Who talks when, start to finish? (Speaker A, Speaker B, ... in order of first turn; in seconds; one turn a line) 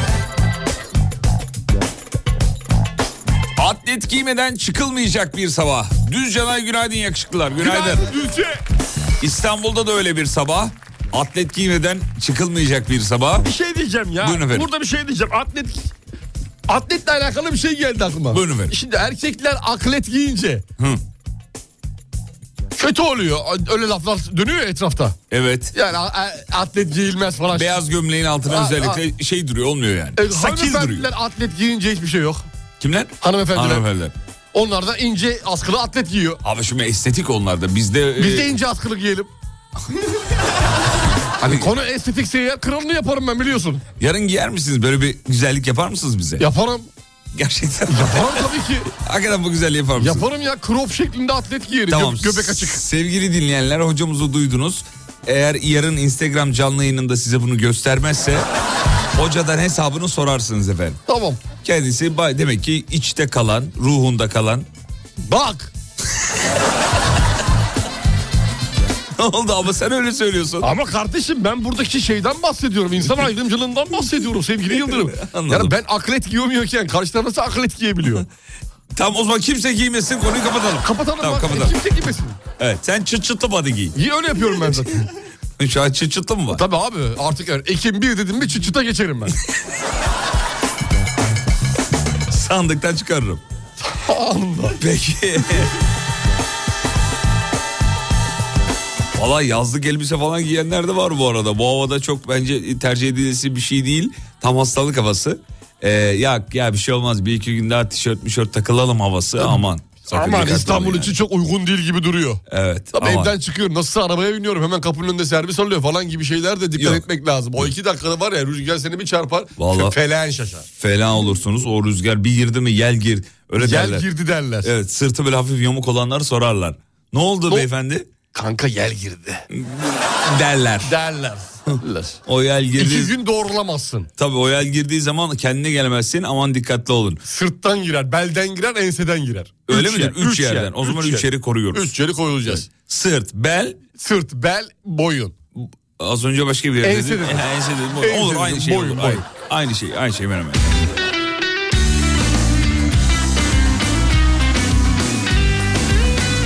Speaker A: 3.6-8.1
Speaker B: 7.6-8.6
Speaker A: 9.2-13.5
Speaker B: 13.4-15.9
Speaker A: 14.2-14.7
Speaker B: 16.7-20.7
Speaker A: 18.3-18.8
Speaker B: 22.8-25.2
Speaker A: 25.3-25.7
Speaker B: 25.7-27.8
Speaker A: 27.5-31.1
Speaker B: 28.4-29.0
Speaker B: 30.2-32.5
Speaker A: 32.8-34.1
Speaker B: 33.2-33.9
Speaker B: 34.5-36.4
Speaker A: 36.4-38.5
Speaker B: 38.1-39.3
Speaker B: 41.4-43.8
Speaker A: 44.0-46.5
Speaker B: 46.4-46.9
Speaker A: 47.4-48.4
Speaker B: 47.9-48.9
Speaker A: 49.0-50.2
Speaker B: 50.0-52.8
Speaker A: 51.9-58.5
Speaker A: 59.1-61.0
Speaker B: 61.1-61.4
Speaker A: 61.6-64.7
Speaker B: 65.2-65.7
Speaker A: 69.2-70.7
Speaker B: 70.6-78.2
Speaker A: 74.8-75.7
Speaker A: 78.9-81.7
Speaker B: 80.8-82.4
Speaker A: 82.6-84.0
Speaker B: 84.0-85.1
Speaker A: 85.6-86.6
Speaker B: 86.5-89.4
Speaker A: 92.3-93.4
Speaker B: 93.8-94.8
Speaker A: 94.8-95.7
Speaker A: 99.2-111.1
Speaker B: 110.1-112.4
Speaker A: 112.5-113.3
Speaker B: 112.9-120.7
Speaker A: 116.8-117.0
Speaker A: 119.6-120.0
Speaker A: 120.8-124.0
Speaker B: 123.6-124.7
Speaker A: 124.6-128.1
Speaker B: 128.3-129.4
Speaker A: 129.5-130.9
Speaker B: 130.8-132.2
Speaker A: 131.7-133.1
Speaker B: 132.8-134.1
Speaker A: 134.2-137.2
Speaker B: 137.2-142.7
Speaker A: 139.7-141.9
Speaker A: 142.7-143.8
Speaker B: 144.0-145.3
Speaker A: 145.6-151.1
Speaker B: 146.8-147.5
Speaker B: 148.0-149.3